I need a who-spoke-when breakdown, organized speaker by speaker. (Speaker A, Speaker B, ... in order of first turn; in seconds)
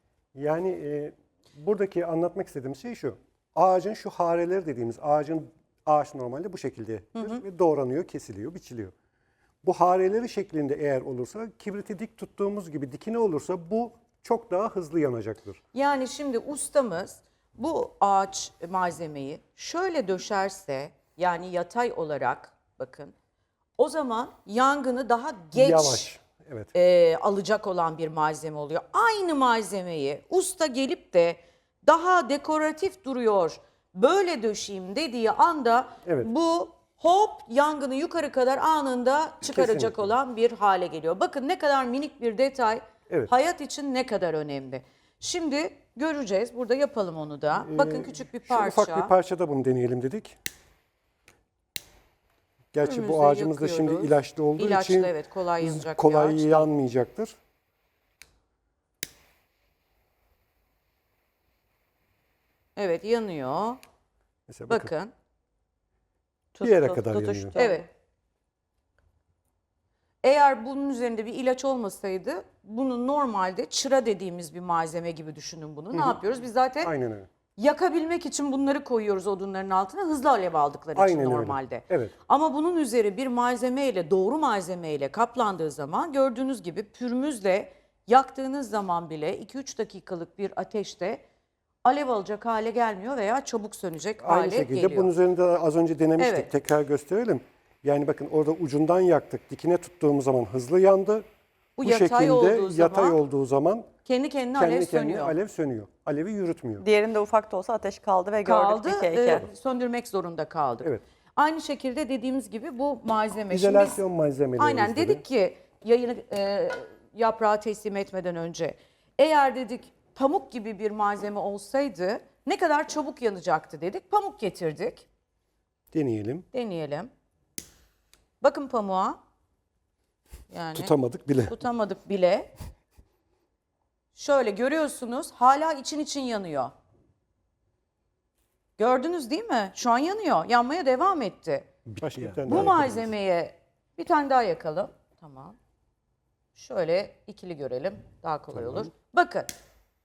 Speaker A: 0.3-8.9, 9.6-15.6, 25.5-26.7, 36.0-36.3, 39.4-40.1, 47.6-50.4, 52.7-57.4, 64.5-64.9, 66.6-67.6, 75.9-76.2, 76.8-77.3, 80.9-82.1, 94.2-101.2, 101.8-103.9, 104.5-106.8, 113.5-115.2, 125.9-126.5, 130.7-131.6, 141.9-143.1, 148.5-148.9
Speaker B: 7.1-7.4, 15.7-23.1, 23.8-26.1, 26.7-49.1, 52.8-56.7, 62.8-63.8, 64.7-65.1, 67.5-67.8, 70.2-76.9, 77.5-91.2, 91.8-95.1, 96.2-96.5, 101.8-103.2, 104.0-105.3, 108.4-114.0, 114.6-125.0, 126.5-127.1, 128.4-129.2, 130.5-130.9, 131.4-132.5, 134.1-136.7, 138.8-141.7, 142.4-145.6, 146.5-149.5
Speaker C: 66.5-67.8, 106.8-109.5